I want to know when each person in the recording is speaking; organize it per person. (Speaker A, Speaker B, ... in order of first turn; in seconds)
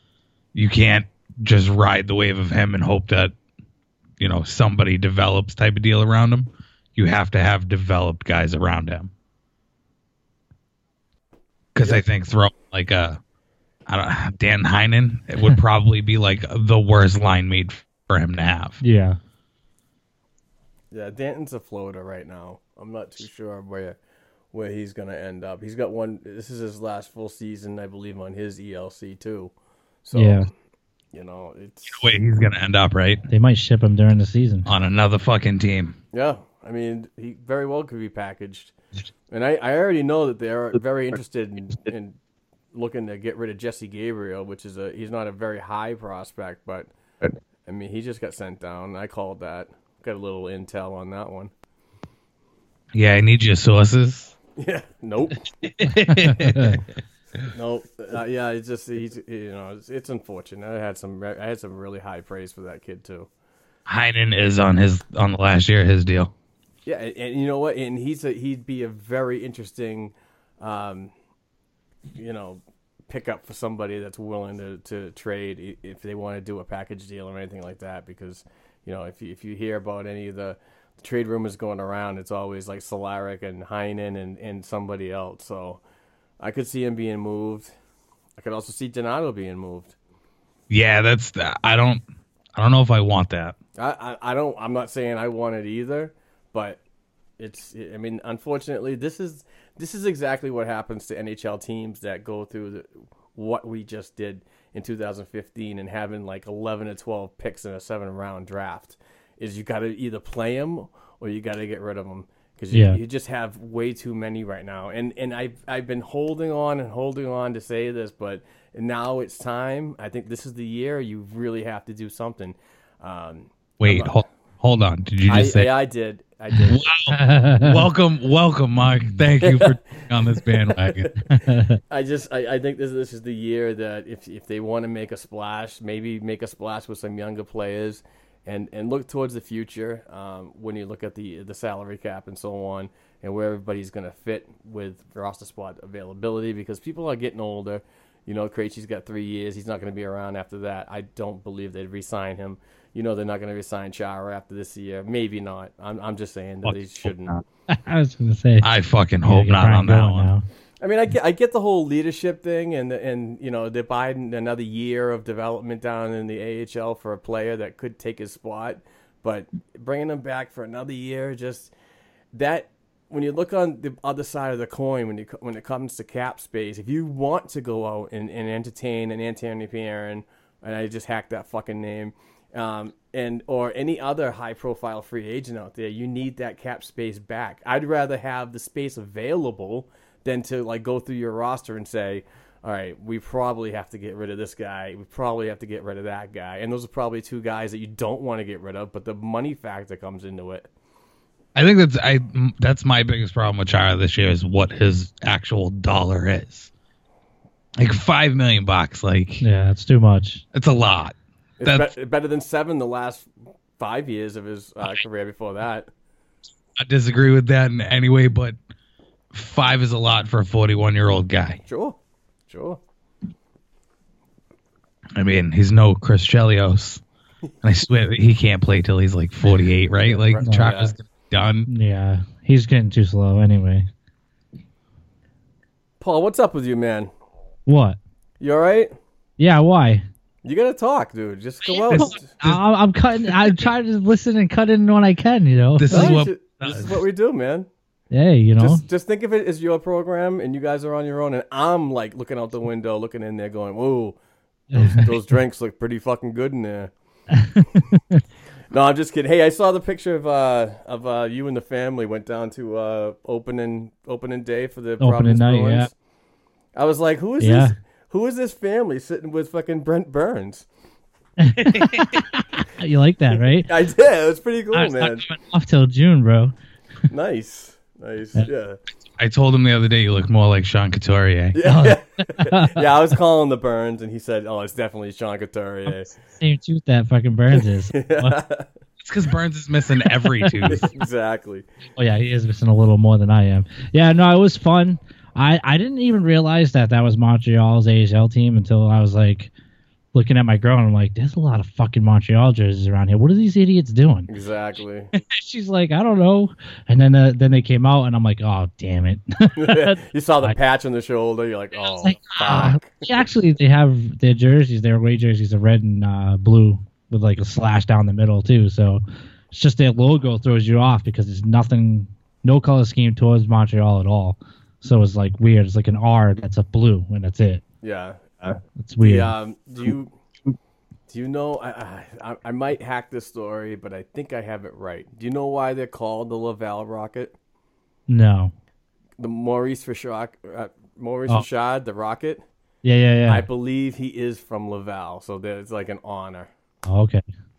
Speaker A: 0.5-3.3, 4.2-9.1, 11.8-13.2, 13.9-18.8, 31.9-33.2, 34.7-36.0, 52.9-54.4, 55.6-56.8, 63.9-66.3, 90.7-92.0, 92.5-93.6, 123.8-125.7, 126.7-131.2, 156.6-157.4, 158.6-160.3, 201.6-206.7, 207.8-209.4, 210.5-211.9, 216.8-218.6, 219.3-221.6, 225.2-227.0, 227.6-231.7, 241.9-242.6, 243.2-243.6, 245.8-247.0, 271.6-272.2, 279.2-281.6, 289.0-290.9
Speaker B: 18.8-19.2, 30.1-30.5, 33.3-34.7, 56.1-56.8, 112.7-113.0, 127.1-127.8, 131.4-131.8, 157.7-158.7, 159.2-160.4, 209.4-210.4, 231.7-233.9, 237.7-238.0, 239.4-240.0, 241.9-246.2, 248.1-248.8, 254.7-255.1, 257.3-258.2, 265.0-265.9, 267.4-267.8, 271.4-273.7, 274.7-276.5, 281.6-282.8, 285.9-288.4, 290.4-290.8, 292.0-299.5, 300.1-304.3, 305.2-310.6, 311.9-327.6, 328.8-329.3, 338.1-338.5, 342.8-343.5, 346.9-347.2
Speaker C: 20.9-24.0, 24.5-29.5, 30.1-30.5, 31.1-32.1, 36.1-38.8, 39.3-42.1, 42.7-46.9, 47.7-51.5, 54.6-55.5, 57.5-63.3, 66.9-71.1, 72.2-85.8, 86.4-87.7, 88.4-90.0, 93.8-96.8, 97.4-124.2, 125.3-126.9, 129.4-131.1, 131.9-157.3, 160.8-171.7, 172.3-200.7, 211.6-213.3, 213.8-215.9, 221.7-222.0, 222.5-222.8, 230.0-230.9, 236.0-237.1, 238.4-238.9, 240.4-242.3, 245.9-247.7, 248.6-254.2, 254.8-256.9, 258.7-265.9, 266.8-270.7, 273.6-275.3, 277.1-278.8, 281.6-286.1, 287.6-288.7, 290.7-291.7, 304.3-305.1, 309.6-313.2, 327.8-330.1, 331.1-337.4, 339.2-342.4, 343.3-346.5